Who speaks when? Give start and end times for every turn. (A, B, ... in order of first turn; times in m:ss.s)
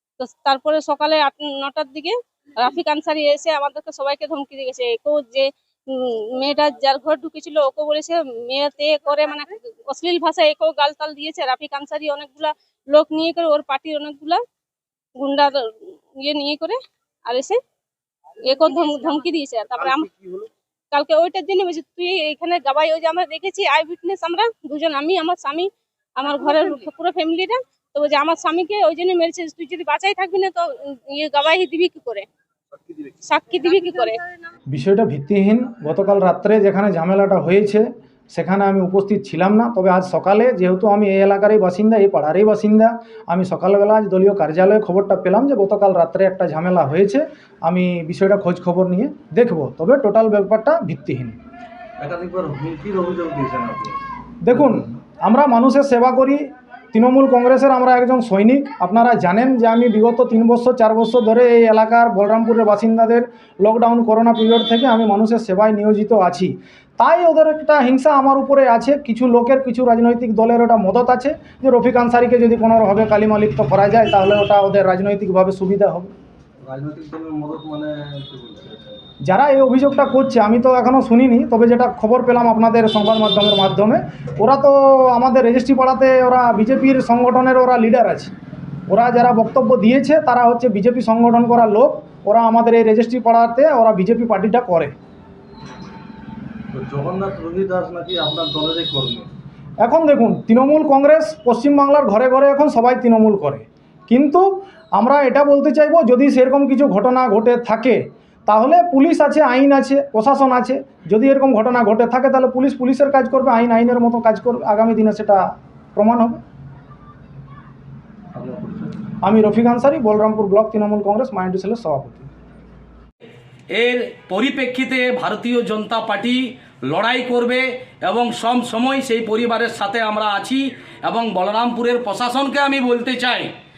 0:00.2-0:14.4 A
0:15.2-0:17.6 A
0:18.4-0:20.1 A
0:20.9-0:32.2 A
0:33.2-0:34.2 A
0:34.7-0:51.3 B
0:52.0-0:54.0 C
0:54.4-1:16.1 B
0:54.5-0:54.9 C
1:16.6-1:19.0 C
1:19.2-1:28.3 B
1:28.9-1:34.9 B
1:36.7-1:39.3 C
1:39.8-1:55.4 B
1:56.0-1:56.4 B
1:58.3-1:59.1 C
1:59.2-2:02.3 B
2:03.7-2:13.5 D